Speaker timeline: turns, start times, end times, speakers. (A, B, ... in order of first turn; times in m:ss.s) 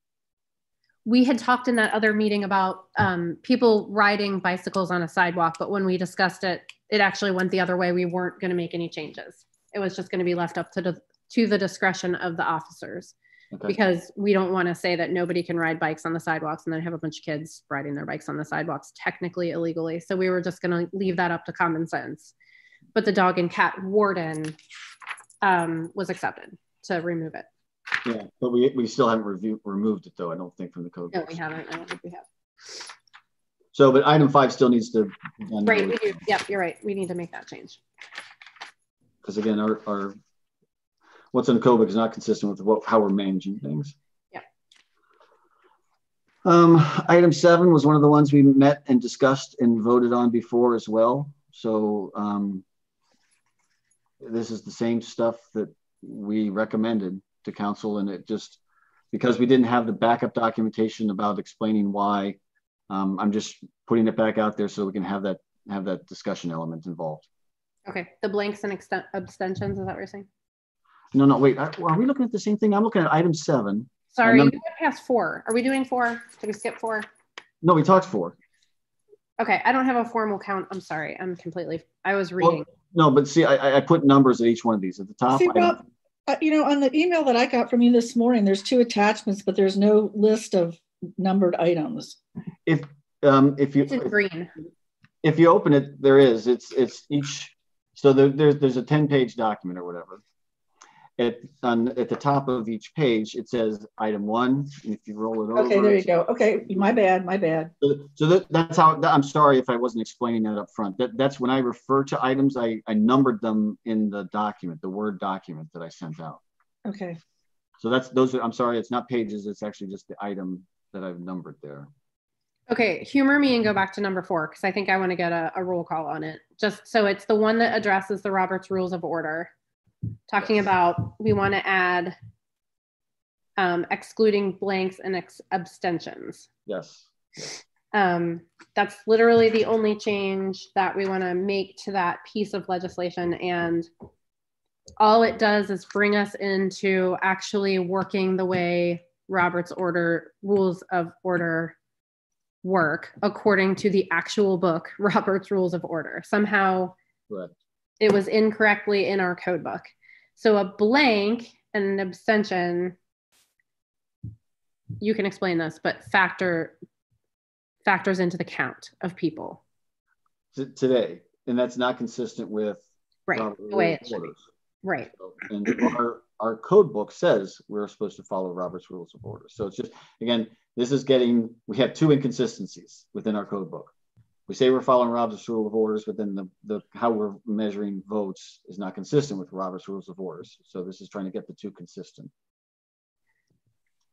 0:01.0-0:13.2 A
0:13.5-0:13.8 B
0:13.7-0:22.3 A
0:23.0-0:24.6 A
0:25.4-0:27.5 A
0:28.0-0:31.4 B
0:31.1-0:32.2 A
0:33.7-0:36.2 B
0:35.6-0:37.8 A
0:39.2-0:40.2 B
0:41.3-0:44.0 B
0:46.4-0:52.6 B
0:54.2-0:58.6 B
0:59.1-1:02.4 B
1:02.9-1:07.3 B
1:07.9-1:10.3 A
1:11.1-1:14.6 B
1:14.2-1:17.1 A
1:17.6-1:18.4 B
1:19.4-1:22.7 A
1:22.4-1:25.9 B
1:25.3-1:32.2 C
1:32.7-1:34.1 B
1:33.9-1:34.5 A
1:35.2-1:40.2 B
1:41.2-1:46.1 B
1:45.6-1:47.7 C
1:47.8-1:56.4 B
1:56.9-1:57.2 C
1:57.8-2:01.9 B
2:02.7-2:09.5 A
2:10.3-2:12.2 A
2:13.6-2:16.5 A
2:16.7-2:17.5 B
2:17.9-2:23.9 A
2:25.0-2:31.8 A
2:32.6-2:37.0 A
2:38.0-2:43.0 A
2:45.0-2:46.8 A
2:47.8-2:49.6 A
2:50.5-2:54.4 B
2:53.3-2:54.3 A
2:54.8-2:55.1 A
2:55.2-3:03.9 B
3:04.5-3:12.3 B